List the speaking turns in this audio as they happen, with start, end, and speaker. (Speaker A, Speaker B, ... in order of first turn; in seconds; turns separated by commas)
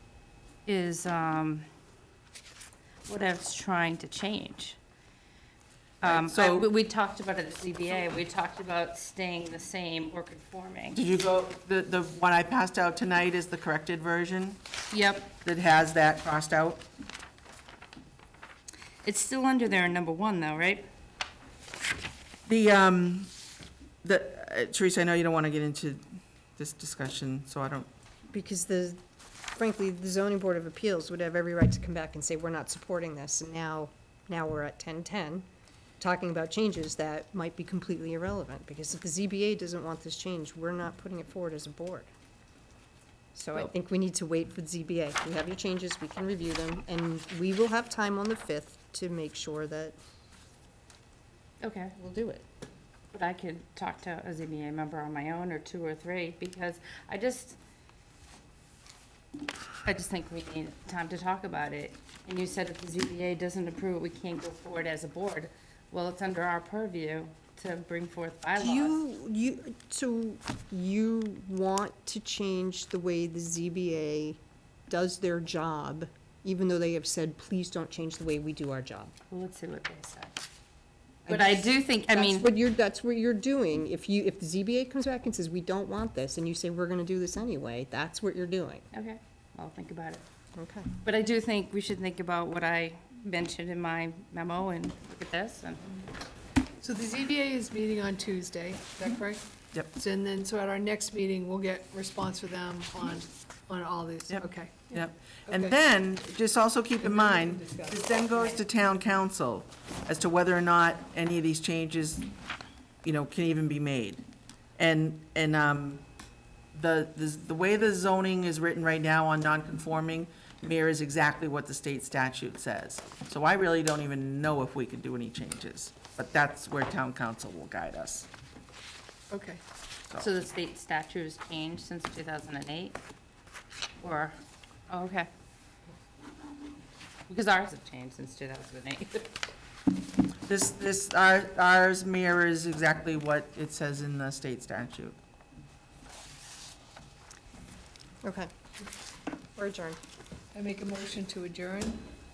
Speaker A: 0.7-1.7, Speaker A: 3.0-4.8, Speaker B: 6.0-6.7, Speaker A: 6.0-11.0, Speaker B: 10.9-14.6, Speaker A: 14.9-15.3, Speaker B: 15.4-16.8, Speaker A: 19.0-20.9, Speaker B: 22.5-23.3, Speaker B: 24.0-26.0, Speaker B: 26.6-27.9, Speaker C: 28.3-29.0, Speaker C: 29.6-35.5, Speaker C: 36.0-42.1, Speaker C: 43.3-50.0, Speaker A: 51.6-52.0, Speaker C: 52.0-52.4, Speaker A: 53.1-57.6, Speaker A: 59.8-69.0, Speaker C: 68.6-79.2, Speaker A: 79.3-80.4, Speaker C: 81.2-88.9, Speaker A: 81.3-82.5, Speaker A: 88.9-90.2, Speaker C: 90.5-90.9, Speaker A: 91.0-96.0, Speaker D: 96.8-99.4, Speaker D: 99.9-105.7, Speaker B: 104.3-112.3, Speaker D: 107.0-108.3, Speaker B: 113.0-114.2, Speaker B: 114.8-116.0, Speaker B: 116.7-128.3, Speaker D: 129.3-129.6, Speaker A: 130.2-133.0, Speaker A: 134.0-134.4, Speaker A: 134.9-135.3, Speaker A: 137.3-139.3, Speaker B: 140.5-145.2, Speaker C: 148.2-148.5, Speaker C: 149.6-150.0, Speaker D: 150.5-152.0